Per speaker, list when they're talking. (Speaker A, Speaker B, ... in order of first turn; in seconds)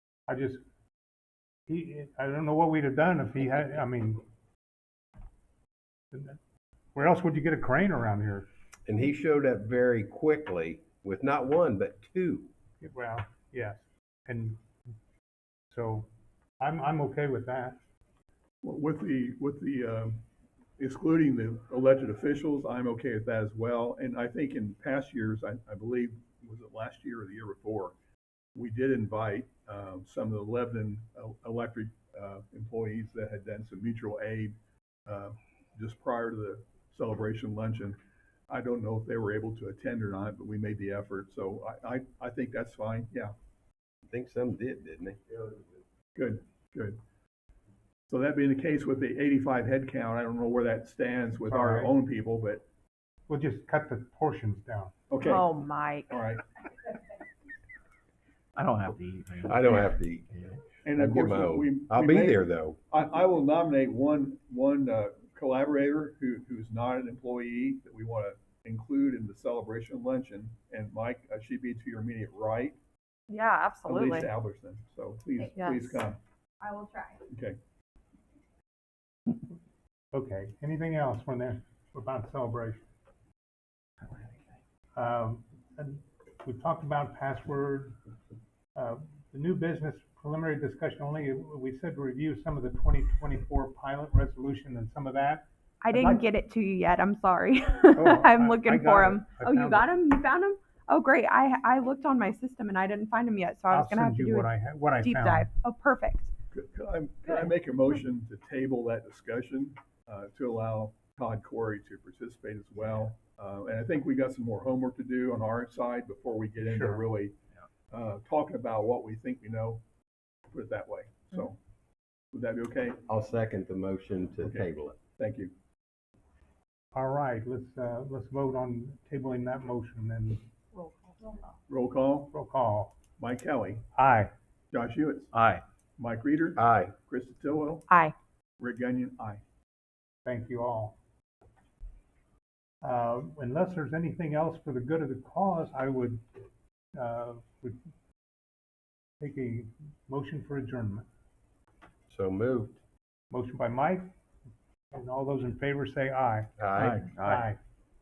Speaker A: 0.3-0.6, 1.7-4.2, 6.1-6.4, 7.0-8.5, 12.8-14.6, 15.7-16.1, 16.6-17.8, 51.4-51.9, 53.3-54.9, 80.1-82.8, 85.0-88.0, 88.8-96.2, 98.0-99.9, 103.7-105.5, 116.6-117.0, 127.0-130.4, 132.3-132.9, 133.9-134.3, 140.2-141.0, 142.8-146.2, 146.9-147.8, 149.2-151.1, 153.3-154.1, 154.9-156.5, 157.2-157.6
Speaker B: 8.9-12.5, 44.1-45.7, 59.4-62.8, 123.1-125.0, 136.6-136.9, 152.1-152.8, 156.6-157.0
Speaker C: 18.6-20.2, 20.8-27.9, 28.6-34.5, 35.1-38.0, 38.5-43.3, 46.1-47.0, 48.1-52.6, 55.1-55.5, 56.1-56.4, 60.8-72.8, 73.8-76.2, 77.3-77.6, 106.5-117.4, 117.9-119.8, 120.5-121.6, 122.3-123.0, 124.4-125.5, 131.7-132.3, 133.2-133.8, 134.7-135.3, 136.0-137.9, 138.6-139.4
Speaker D: 55.2-56.1, 73.3-74.3, 75.4-76.0, 76.6-77.2, 95.8-106.3, 130.7-131.5, 137.9-138.1
Speaker E: 58.6-59.5, 135.3-135.6, 156.8-157.4